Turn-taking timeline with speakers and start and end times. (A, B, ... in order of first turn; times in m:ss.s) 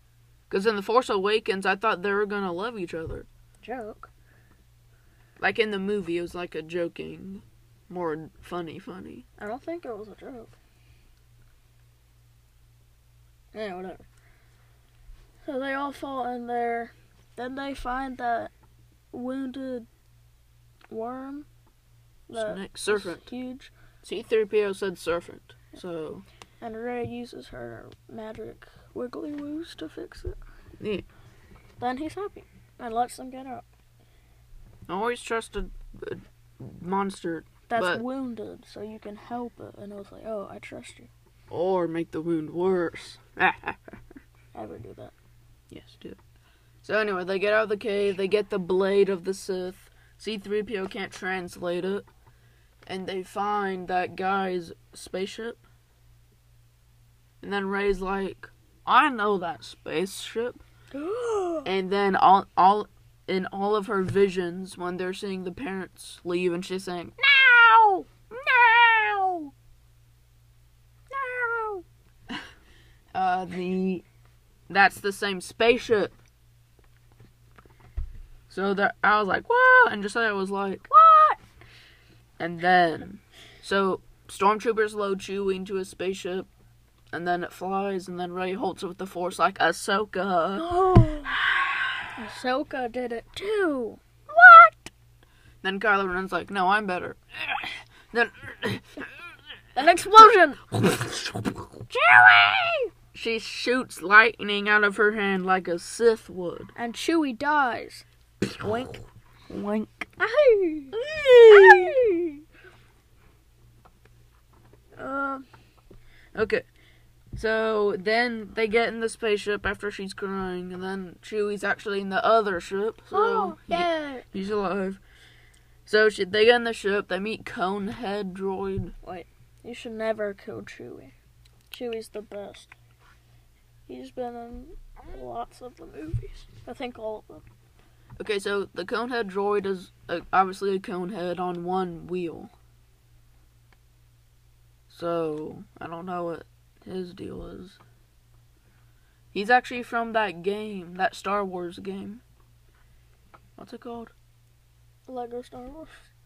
0:00.5-0:03.3 A
0:03.6-0:04.1 B
0:05.4-0:09.2 A
0:09.4-0:10.5 B
0:13.5-0:14.0 B
0:15.4-0:18.5 B
0:19.1-0:19.9 B
0:20.9-0:21.5 B
0:22.3-0:23.7 B
0:22.3-0:23.3 A
0:24.0-0:26.2 A
0:26.6-0:30.4 B
0:30.8-0:31.0 A
0:31.8-0:33.6 B
0:34.9-0:38.0 A
0:37.7-0:41.1 B
0:41.5-0:44.0 A
0:44.5-0:45.1 B
0:45.7-0:46.2 A
0:46.8-0:52.0 A
0:52.9-0:55.6 A
0:57.4-1:00.6 A
1:00.9-1:01.7 B
1:01.6-1:09.5 A
1:11.1-1:12.4 A
1:13.1-1:14.0 A
1:14.7-1:16.1 A
1:18.5-1:20.9 A
1:20.9-1:21.4 B
1:22.4-1:26.5 A
1:27.1-1:31.9 A
1:30.6-1:31.4 B
1:32.2-1:34.0 B
1:34.3-1:34.7 A
1:35.6-1:39.0 A
1:39.8-1:40.6 B
1:40.8-1:41.5 A
1:41.9-1:42.9 B
1:43.1-1:46.7 A
1:46.8-1:48.0 B
1:48.6-1:49.0 B
1:49.5-1:50.1 A
1:50.2-1:52.0 B
1:50.9-1:52.2 A
1:55.0-1:55.4 B
1:56.3-1:56.6 A
1:57.4-2:05.0 A
2:03.1-2:04.2 B
2:05.8-2:08.9 A
2:09.0-2:11.1 B
2:11.7-2:12.7 B
2:13.9-2:17.4 B
2:18.2-2:22.5 A
2:24.9-2:27.8 A
2:29.3-2:32.2 A
2:33.6-2:34.1 A
2:35.1-2:35.9 B